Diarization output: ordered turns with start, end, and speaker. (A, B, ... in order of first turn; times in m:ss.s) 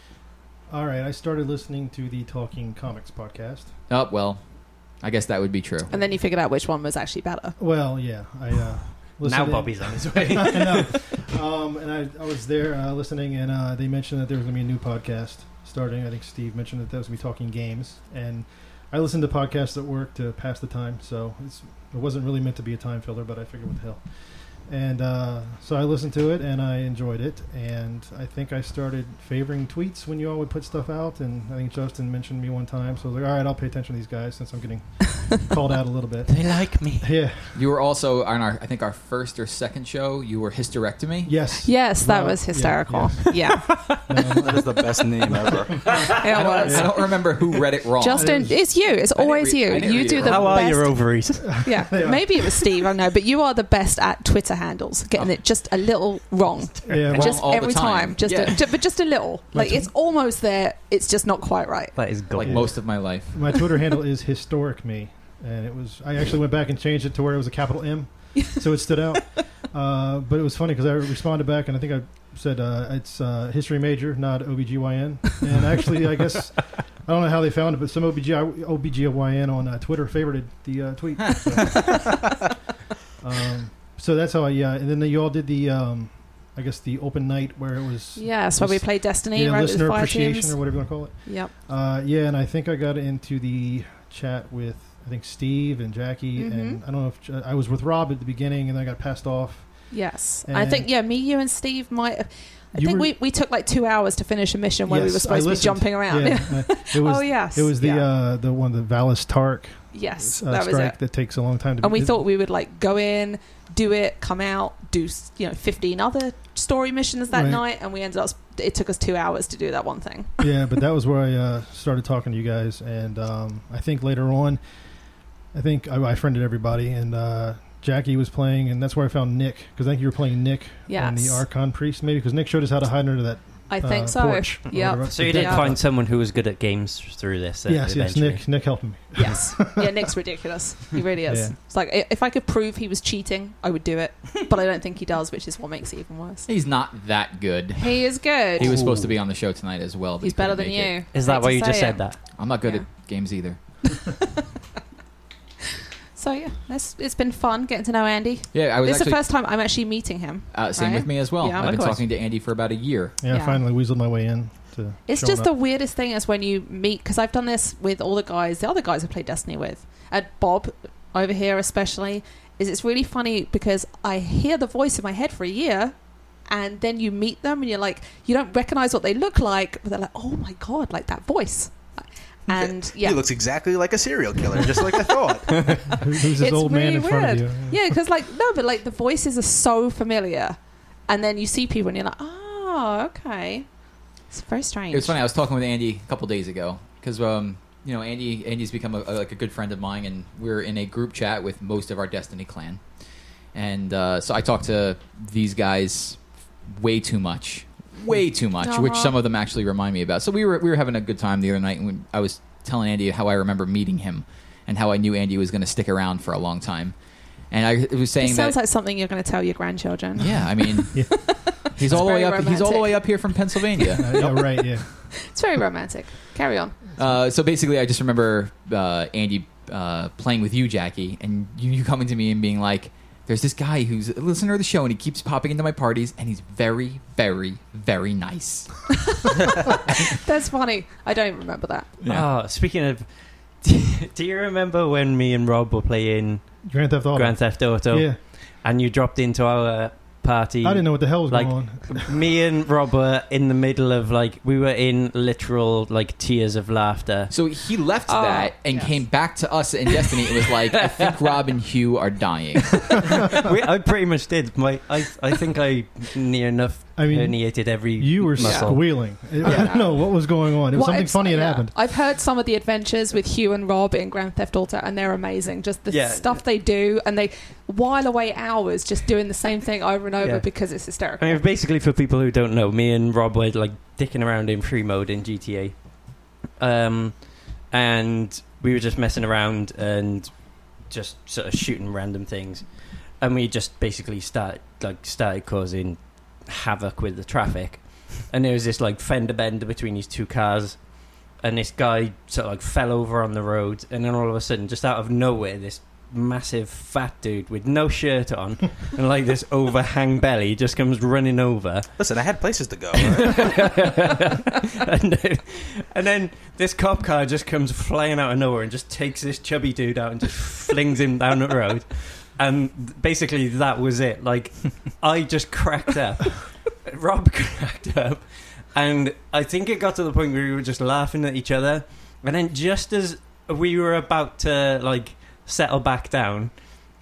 0:00.7-0:03.7 A
0:03.9-0:05.9 B
0:05.9-0:07.6 C
0:07.6-0:37.6 A
0:09.2-0:11.2 D
0:36.3-0:37.1 D
0:37.5-0:41.4 B
0:41.2-0:46.1 A
0:41.6-0:43.9 C
0:43.4-0:44.1 D
0:44.3-0:46.1 E
0:45.9-0:46.1 D
0:46.1-0:47.2 C
0:46.2-0:50.7 B
0:46.6-0:46.9 A
0:48.0-1:02.1 C
0:48.1-0:48.7 A
0:49.7-0:51.9 D
0:51.4-0:52.4 A
0:56.9-0:57.4 A
0:57.1-0:58.7 B
0:59.5-0:59.9 A
1:02.0-1:02.8 D
1:02.3-1:03.3 B
1:02.4-1:22.1 A
1:23.2-1:40.9 A
1:28.1-1:31.5 C
1:36.4-1:36.8 C
1:39.9-1:48.0 C
1:42.7-1:43.1 A
1:44.9-1:52.2 A
1:49.9-2:00.5 C
1:57.3-1:57.6 A
2:00.4-2:15.8 A
2:10.9-2:11.4 C
2:13.7-2:15.7 C
2:15.0-2:18.8 D
2:17.6-2:20.1 A
2:19.1-2:26.5 C
2:21.2-2:21.5 A
2:26.4-2:31.0 B
2:27.8-2:28.8 C
2:28.6-2:29.1 D
2:30.2-2:32.9 C
2:31.1-2:32.2 D
2:32.4-2:33.6 B
2:36.1-2:42.0 C
2:38.5-2:39.2 B
2:40.5-2:43.2 B
2:41.6-2:42.0 D
2:43.2-2:45.5 A
2:43.3-2:43.6 C
2:45.1-3:03.3 C
3:02.5-3:05.8 E
3:04.8-3:13.7 C
3:05.9-3:08.0 A
3:14.3-3:15.2 C
3:14.9-3:22.8 B
3:23.5-3:37.0 B
3:28.6-3:29.1 C
3:37.5-3:38.6 B
3:38.2-3:43.4 C
3:40.2-3:44.4 B
3:40.9-3:41.5 A
3:43.9-3:45.1 A
3:44.2-3:46.8 C
3:47.0-3:58.9 B
3:59.1-4:01.9 C
4:02.0-4:02.3 B
4:02.0-4:17.3 D
4:06.6-4:08.2 A
4:10.6-4:12.1 A
4:17.3-4:23.1 B
4:18.1-4:19.0 C
4:23.3-4:29.9 D
4:27.0-4:31.7 A
4:28.4-4:41.4 C
4:35.9-4:36.4 D
4:40.2-5:12.4 D
5:12.0-5:13.5 E
5:13.0-5:36.6 D